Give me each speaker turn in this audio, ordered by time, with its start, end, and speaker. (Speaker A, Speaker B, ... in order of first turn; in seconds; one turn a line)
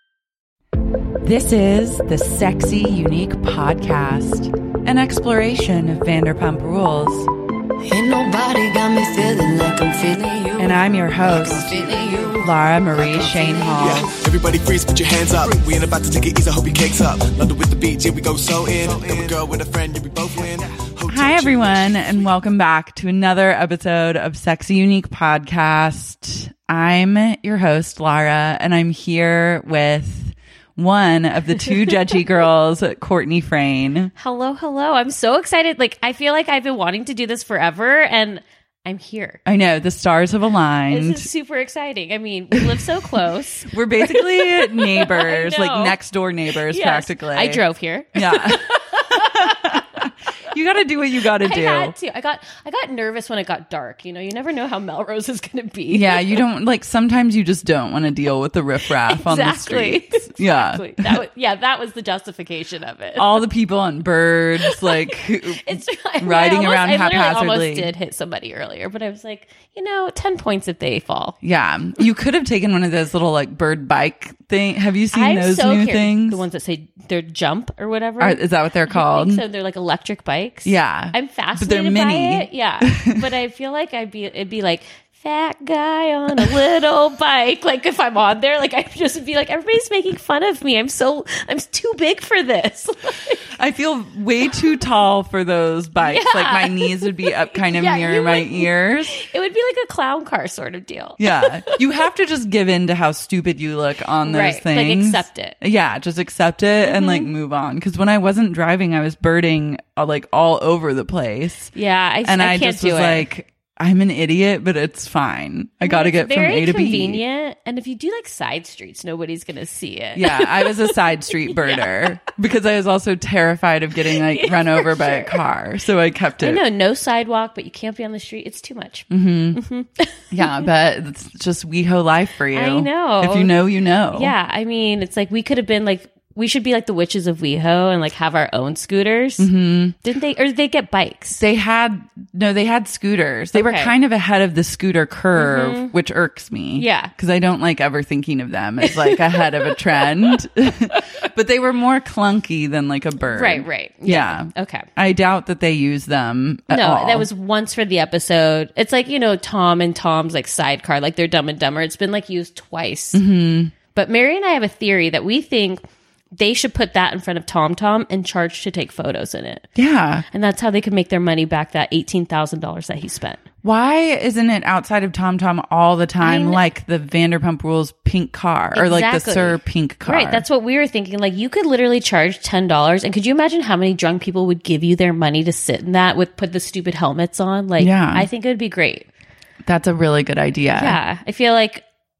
Speaker A: 1.2-7.3
Speaker B: 7.8-14.0
Speaker A: 10.6-14.1
Speaker C: 13.8-22.2
Speaker A: 21.1-34.1
Speaker D: 34.2-39.4
Speaker A: 39.5-41.3
Speaker D: 40.9-46.0
Speaker A: 42.5-42.8
Speaker A: 43.7-47.6
Speaker D: 46.7-49.8
Speaker A: 48.1-52.0
Speaker D: 51.4-56.4
Speaker A: 55.9-61.2
Speaker D: 59.1-63.4
Speaker A: 63.2-67.9
Speaker D: 64.7-71.4
Speaker A: 71.4-76.4
Speaker D: 75.1-93.5
Speaker A: 78.2-79.4
Speaker A: 80.7-83.2
Speaker A: 93.6-99.2
Speaker D: 96.0-101.8
Speaker A: 101.2-111.7
Speaker D: 104.3-105.6
Speaker D: 106.8-107.3
Speaker D: 111.8-113.3
Speaker A: 112.2-117.2
Speaker D: 115.8-122.0
Speaker A: 120.1-126.6
Speaker D: 124.2-125.4
Speaker D: 126.4-130.5
Speaker A: 129.1-129.6
Speaker A: 130.3-134.3
Speaker D: 132.5-133.5
Speaker D: 134.1-139.5
Speaker A: 139.4-140.0
Speaker D: 140.0-141.4
Speaker A: 141.3-157.3
Speaker D: 143.5-143.9
Speaker D: 145.3-145.9
Speaker D: 146.8-147.1
Speaker D: 148.8-150.4
Speaker D: 153.3-154.9
Speaker D: 156.7-163.2
Speaker A: 163.1-163.7
Speaker D: 163.9-165.8
Speaker D: 166.3-169.7
Speaker A: 169.8-170.2
Speaker D: 170.3-173.4
Speaker A: 173.6-180.4
Speaker D: 176.2-176.6
Speaker D: 178.7-189.1
Speaker A: 187.8-188.3
Speaker A: 189.7-191.0
Speaker D: 190.8-191.8